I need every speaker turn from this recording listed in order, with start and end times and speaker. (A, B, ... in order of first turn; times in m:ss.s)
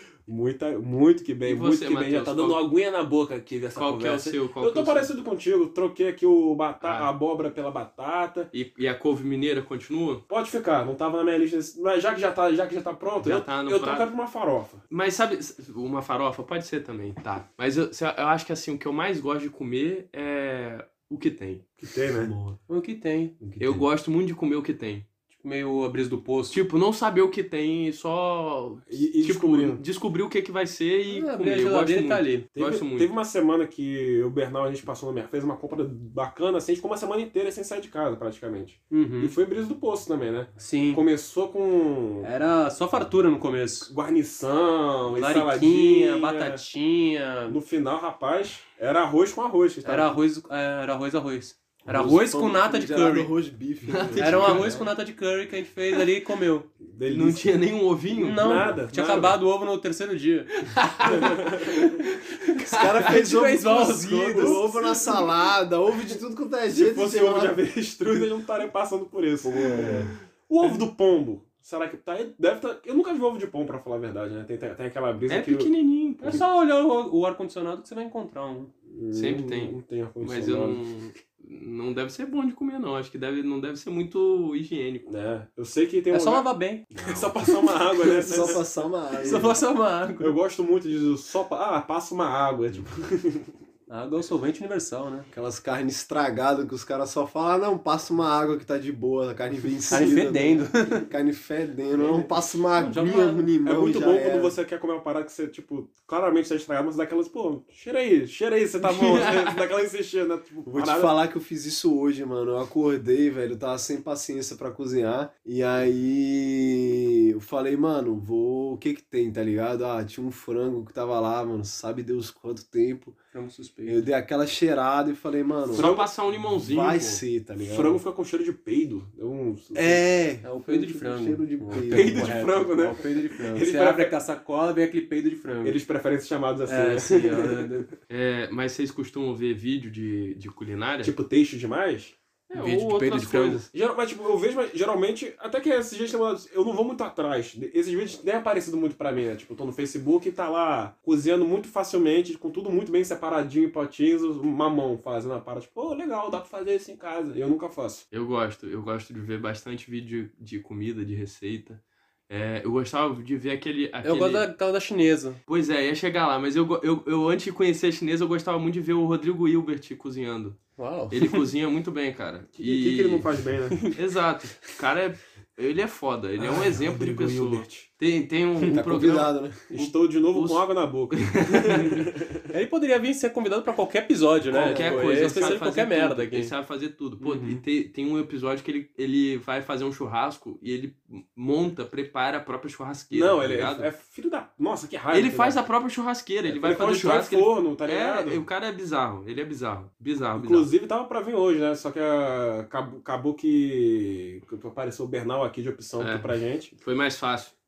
0:00.3-0:08.5 A
0:01.4-0:02.6 B
0:03.8-0:05.1 B
0:06.8-0:07.1 B
0:08.5-0:10.2 B
0:10.3-0:14.8 A
0:13.2-0:14.1 B
0:14.9-0:21.6 B
0:21.8-0:22.3 A
0:22.1-0:22.6 C
0:22.7-0:23.4 D
0:23.4-0:23.9 C
0:23.6-0:25.1 B
0:25.3-0:26.6 D
0:26.5-0:33.1 B
0:28.9-0:29.8 A
0:31.1-0:32.4 D
0:32.6-0:42.3 A
0:38.9-0:39.3 D
0:40.6-0:41.0 D
0:42.2-0:43.9 D
0:43.9-0:46.6 A
0:45.1-0:47.6 D
0:47.5-0:50.2 A
0:49.8-0:53.3 D
0:51.9-0:54.9 C
0:53.9-0:54.8 B
0:54.2-0:56.7 D
0:56.8-0:57.5 A
0:57.1-0:58.6 B
0:58.2-1:00.5 D
0:58.4-0:59.4 A
1:00.6-1:03.1 B
1:01.0-1:01.9 A
1:02.6-1:07.6 C
1:03.0-1:04.8 D
1:04.4-1:04.6 A
1:06.7-1:15.7 A
1:09.4-1:10.1 C
1:15.3-1:16.4 B
1:16.2-1:18.7 D
1:18.9-1:20.8 A
1:19.1-1:25.1 B
1:25.0-1:28.6 A
1:26.1-1:28.6 D
1:28.3-1:29.6 C
1:29.2-1:30.4 D
1:29.3-1:29.6 A
1:30.2-1:33.5 A
1:33.9-1:35.3 D
1:35.3-1:44.6 C
1:39.9-1:41.1 D
1:42.7-1:43.5 D
1:43.6-1:51.1 A
1:48.8-1:49.6 B
1:50.7-2:03.2 C
2:03.3-2:04.1 D
2:03.9-2:05.9 C
2:05.7-2:06.1 A
2:05.7-2:07.2 B
2:06.5-2:08.0 C
2:07.6-2:10.0 A
2:09.8-2:12.7 C
2:10.4-2:15.8 D
2:11.8-2:14.2 A
2:15.6-2:17.9 A
2:16.7-2:17.9 D
2:18.1-2:21.2 B
2:21.0-2:22.2 A
2:22.5-2:23.7 B
2:22.6-2:23.7 D
2:23.7-2:38.0 A
2:38.1-2:44.5 B
2:44.0-2:45.4 D
2:45.5-2:53.3 B
2:50.8-2:51.4 D
2:52.6-2:53.9 A
2:53.9-3:02.1 B
2:56.4-2:57.9 A
2:58.7-2:59.7 C
2:59.7-3:02.5 A
3:02.5-3:06.5 D
3:04.5-3:13.9 B
3:04.6-3:05.0 C
3:07.2-3:07.6 D
3:13.1-3:15.6 A
3:15.1-3:20.7 B
3:16.5-3:18.4 A
3:20.4-3:26.7 A
3:26.0-3:27.6 B